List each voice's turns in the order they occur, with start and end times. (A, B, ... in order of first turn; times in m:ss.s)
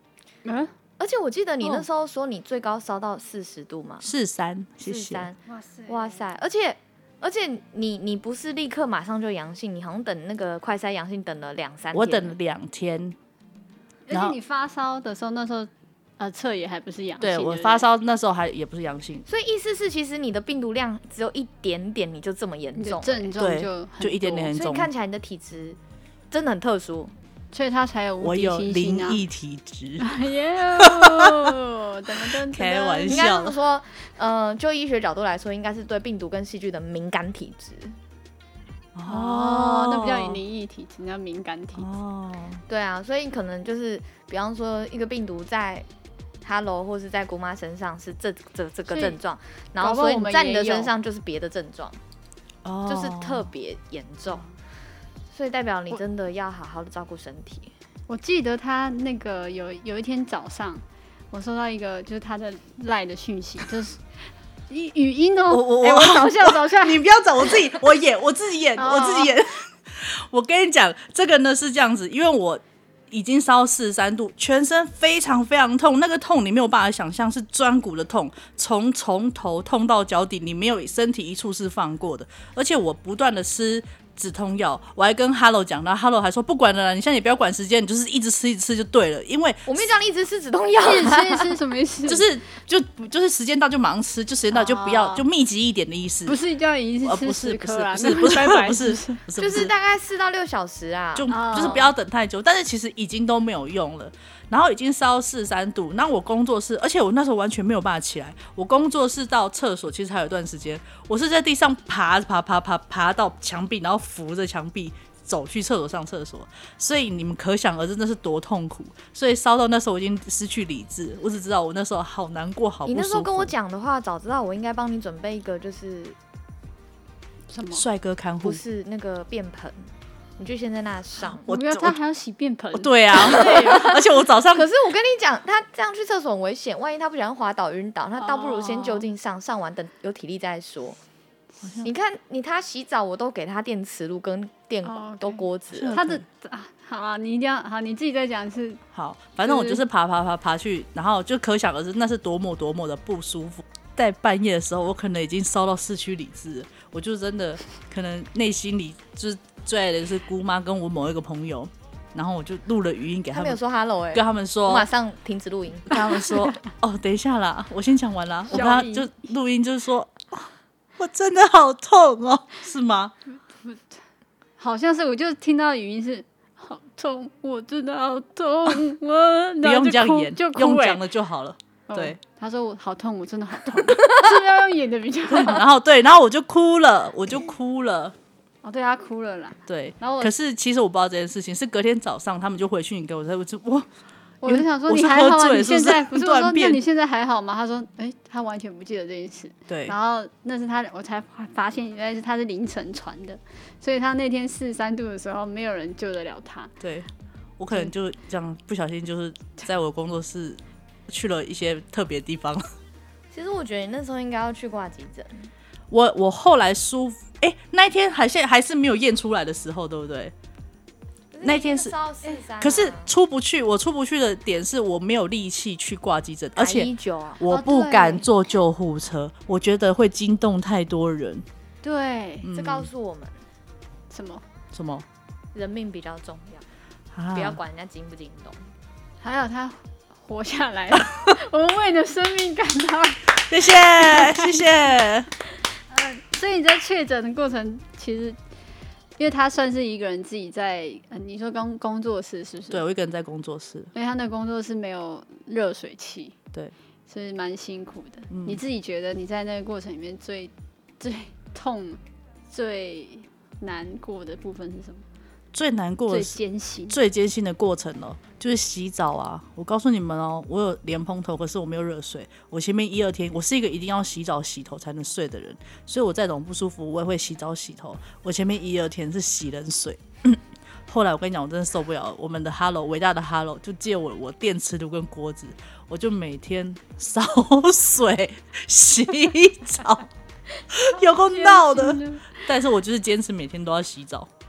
0:00.4-0:00.7 A
0:01.0-0:04.1 B
0:04.0-0:05.3 C
0:04.8-0:12.4 B
0:05.5-0:06.2 A
0:11.9-0:13.2 C
0:14.1-0:17.8 A
0:14.1-0:14.4 C
0:17.2-0:19.2 C
0:19.3-0:23.3 B
0:22.8-0:24.6 A
0:23.4-0:24.9 C
0:24.5-0:25.8 B
0:26.3-0:27.1 B
0:27.5-0:29.2 A
0:28.2-0:30.1 C
0:30.0-0:33.2 A
0:30.8-0:31.6 C
0:32.2-0:33.6 C
0:33.0-0:38.0 B
0:39.0-0:40.4 C
0:39.1-0:41.9 A
0:41.8-0:42.6 C
0:42.7-0:45.9 B
0:46.4-0:52.0 B
0:48.9-0:49.2 A
0:49.8-0:50.9 A
0:52.6-0:53.5 C
0:52.9-0:54.5 B
0:55.3-0:57.7 B
0:58.1-1:04.0 A
1:04.7-1:07.8 A
1:05.5-1:29.9 C
1:08.8-1:09.4 A
1:29.7-1:31.5 B
1:30.8-1:32.4 A
1:32.1-1:36.4 C
1:34.5-1:35.2 A
1:36.3-1:39.2 A
1:37.0-1:39.7 C
1:39.4-1:41.7 B
1:41.2-2:03.5 C
1:41.3-1:41.9 A
2:02.9-2:06.2 B
2:07.5-2:07.8 A
2:07.7-2:08.6 C
2:08.4-2:11.5 B
2:11.5-2:14.2 A
2:11.5-2:12.0 C
2:12.7-2:14.7 C
2:13.2-2:14.0 B
2:14.5-2:21.0 B
2:18.2-2:19.1 A
2:21.6-2:21.9 C
2:21.8-2:26.0 B
2:24.8-2:28.8 A
2:25.7-2:26.2 C
2:28.9-2:43.6 C
2:29.4-2:29.8 A
2:43.3-2:46.2 B
2:44.1-2:44.9 C
2:45.9-2:53.1 C
2:48.5-2:49.1 A
2:53.6-2:54.0 A
2:54.6-3:01.0 A
2:59.6-3:02.2 C
3:01.9-3:05.6 A
3:05.3-3:08.2 C
3:08.6-3:10.3 A
3:09.7-3:13.9 C
3:14.4-3:26.7 A
3:14.4-3:16.8 C
3:19.7-3:20.0 C
3:26.8-3:27.1 C
3:27.6-3:32.7 C
3:33.3-3:35.5 B
3:35.9-3:40.3 C
3:41.3-3:43.1 B
3:41.4-3:41.9 C
3:42.6-3:46.9 C
3:46.6-3:47.4 B
3:47.4-3:51.4 C
3:47.5-3:48.2 A
3:51.8-3:52.5 A
3:52.4-3:52.9 C
3:52.5-3:53.4 B
3:54.1-3:54.4 A
3:54.7-3:55.1 C
3:55.6-3:56.6 B
3:57.2-3:57.6 C
3:57.3-3:58.6 B
3:59.2-4:04.7 A
4:03.4-4:05.3 C
4:05.9-4:08.4 A
4:09.2-4:12.8 A
4:12.7-4:13.9 C
4:13.9-4:16.4 A
4:17.1-4:25.1 A
4:18.3-4:18.6 C
4:25.5-4:50.1 C
4:26.1-4:27.0 A
4:50.7-4:54.3 C
4:50.9-4:52.5 A